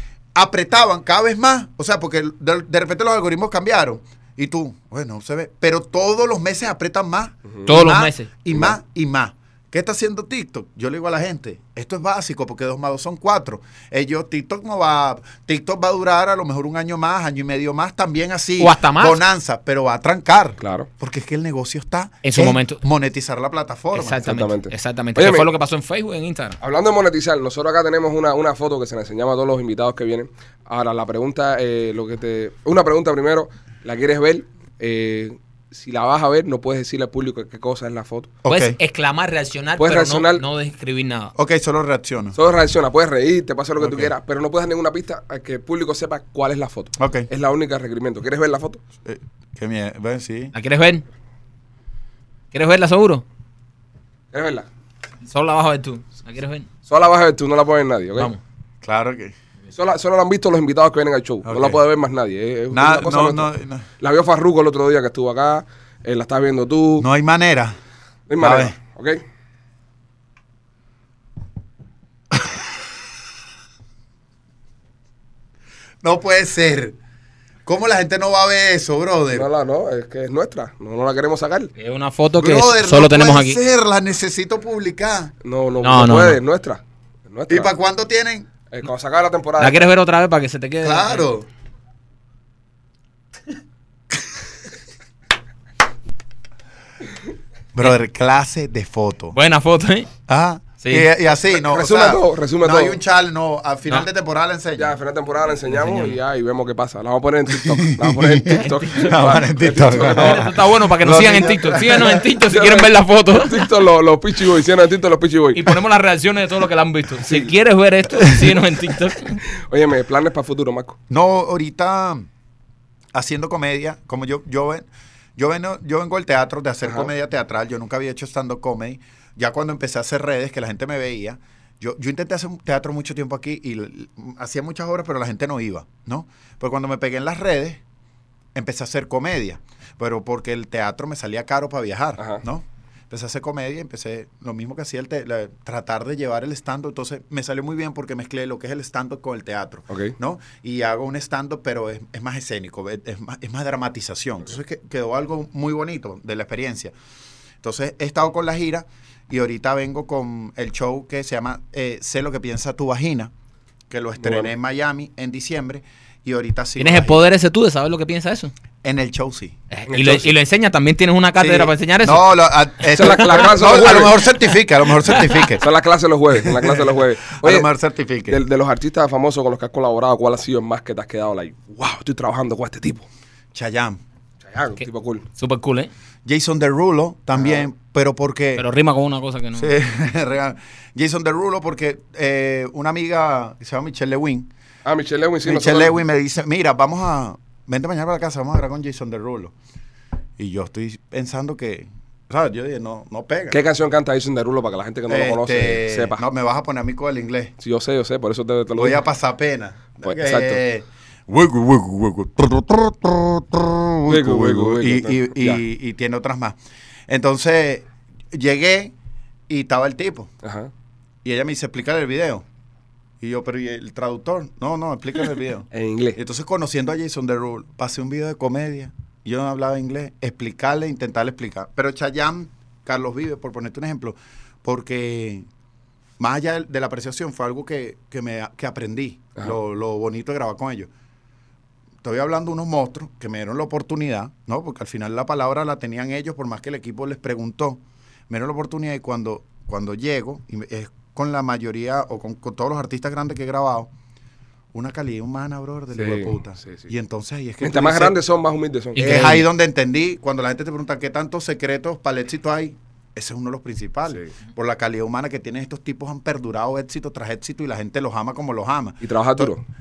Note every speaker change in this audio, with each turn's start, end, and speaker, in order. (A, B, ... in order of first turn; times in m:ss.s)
0:00.4-0:24.3 A
0:07.7-0:08.3 B
0:18.6-0:19.2 B
0:20.6-0:20.9 C
0:22.2-0:22.8 B
0:23.9-0:26.6 B
0:24.2-0:25.5 C
0:26.6-0:38.4 C
0:38.4-0:38.8 A
0:38.5-0:41.3 B
0:39.8-0:40.4 C
0:41.4-0:42.4 A
0:42.4-0:48.8 C
0:43.8-0:44.1 A
0:47.0-0:47.3 A
0:49.0-0:50.5 A
0:50.5-0:51.0 B
0:52.5-0:53.2 B
0:54.3-0:54.7 C
0:55.3-0:56.7 B
0:56.9-0:58.3 C
0:58.8-0:59.4 A
0:59.7-1:03.5 C
1:01.4-1:01.8 A
1:02.7-1:03.8 A
1:04.0-1:07.1 C
1:07.0-1:07.8 A
1:08.3-1:09.2 C
1:08.4-1:08.8 A
1:12.3-1:12.6 A
1:16.0-1:17.0 A
1:17.6-1:19.5 A
1:19.3-1:21.7 C
1:21.8-1:23.6 B
1:22.4-1:25.3 A
1:25.4-1:27.7 C
1:25.8-1:26.4 B
1:27.5-1:28.5 A
1:28.7-1:29.9 C
1:29.6-1:31.3 B
1:30.8-1:31.5 A
1:37.7-1:39.4 A
1:39.3-1:40.1 B
1:40.3-1:45.0 A
1:40.8-1:41.1 B
1:41.6-1:43.0 C
1:44.8-1:50.5 C
1:45.7-1:46.2 B
1:47.6-1:52.2 A
1:48.7-1:49.2 B
1:50.0-1:53.6 B
1:52.5-1:55.7 C
1:55.6-1:59.4 B
1:57.2-1:57.5 C
1:59.7-2:01.0 C
2:01.1-2:02.3 A
2:03.1-2:17.8 A
2:18.6-2:36.9 A
2:29.9-2:30.2 C
2:37.6-2:43.3 A
2:43.9-2:47.3 A
2:44.2-2:44.5 C
2:46.8-2:48.5 B
2:48.8-2:49.6 A
2:49.7-2:52.3 B
2:49.9-2:50.2 C
2:51.4-2:55.6 A
2:52.9-2:54.3 C
2:53.0-2:53.5 B
2:55.6-2:57.7 C
2:56.4-2:58.4 A
2:58.3-3:03.0 C
3:03.5-3:04.0 A
3:04.4-3:05.2 C
3:05.4-3:05.9 B
3:06.2-3:08.6 A
3:07.4-3:07.6 C
3:08.6-3:09.7 B
3:09.6-3:14.5 A
3:14.8-3:16.0 C
3:15.4-3:19.5 A
3:20.4-3:23.6 A
3:23.5-3:26.2 C
3:25.1-3:27.5 A
3:27.6-3:29.0 C
3:28.8-3:36.6 A
3:30.0-3:30.6 C
3:34.1-3:35.6 C
3:37.1-3:38.9 A
3:39.5-3:40.3 A
3:40.4-3:40.7 C
3:41.2-3:42.4 A
3:43.2-3:55.5 A
3:45.7-3:46.2 C
3:56.2-4:00.9 A
4:02.0-4:13.9 A
4:14.7-4:18.2 A
4:16.0-4:16.9 C
4:17.6-4:19.1 C
4:19.0-4:19.5 B
4:19.0-4:29.5 A
4:29.0-4:29.6 C